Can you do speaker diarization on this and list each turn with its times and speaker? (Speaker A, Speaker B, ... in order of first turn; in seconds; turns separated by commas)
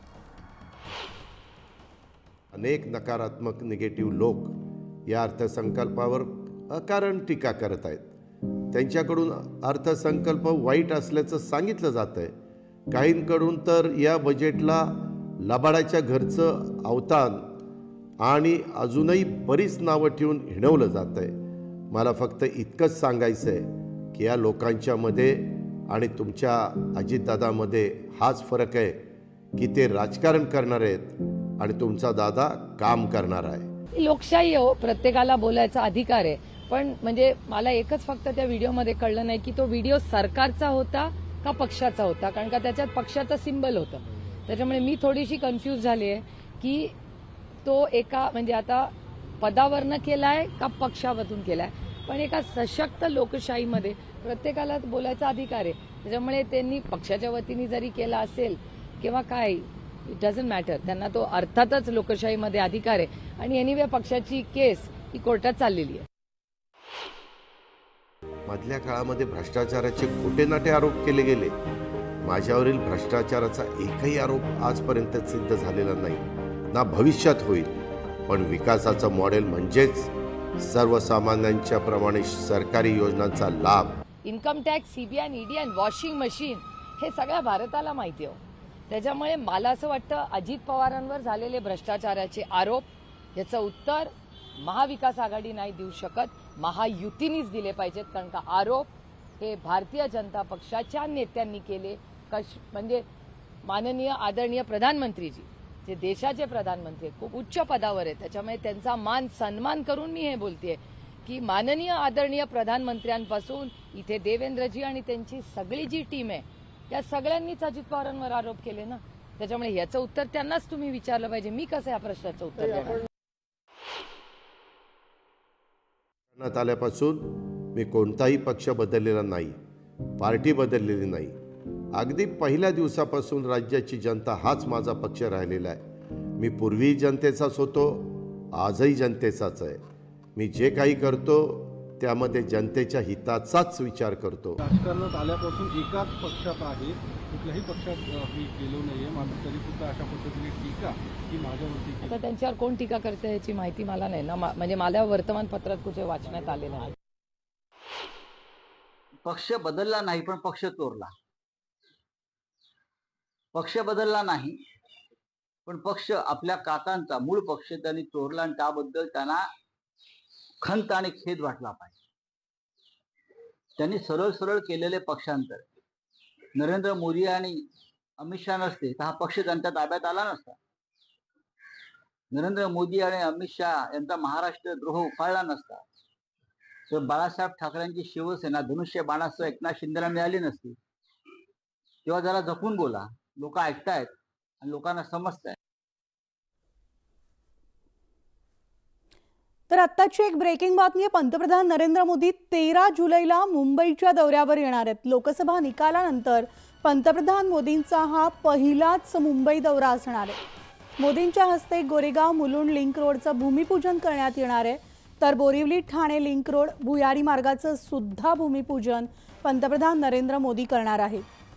Speaker A: 2.5-8.0, Speaker A: 8.7-12.3, Speaker A: 12.9-17.5, Speaker A: 18.2-21.4, Speaker A: 21.9-29.0, Speaker A: 29.6-33.7, Speaker B: 33.9-46.9, Speaker B: 47.6-66.0, Speaker A: 68.5-71.5, Speaker A: 72.2-77.7, Speaker A: 78.3-84.0, Speaker B: 84.2-103.0, Speaker B: 103.6-123.0, Speaker A: 126.3-129.6, Speaker A: 130.2-131.4, Speaker A: 131.9-135.8, Speaker A: 136.4-139.8, Speaker A: 140.3-144.6, Speaker C: 144.6-152.2, Speaker B: 152.0-156.9, Speaker D: 159.2-161.1, Speaker D: 163.5-164.6, Speaker D: 165.7-169.5, Speaker D: 170.6-171.9, Speaker D: 173.8-175.6, Speaker D: 176.5-177.6, Speaker D: 178.2-180.6, Speaker D: 182.3-185.8, Speaker D: 186.9-190.8, Speaker D: 192.0-195.6, Speaker E: 199.7-210.4, Speaker E: 211.0-221.2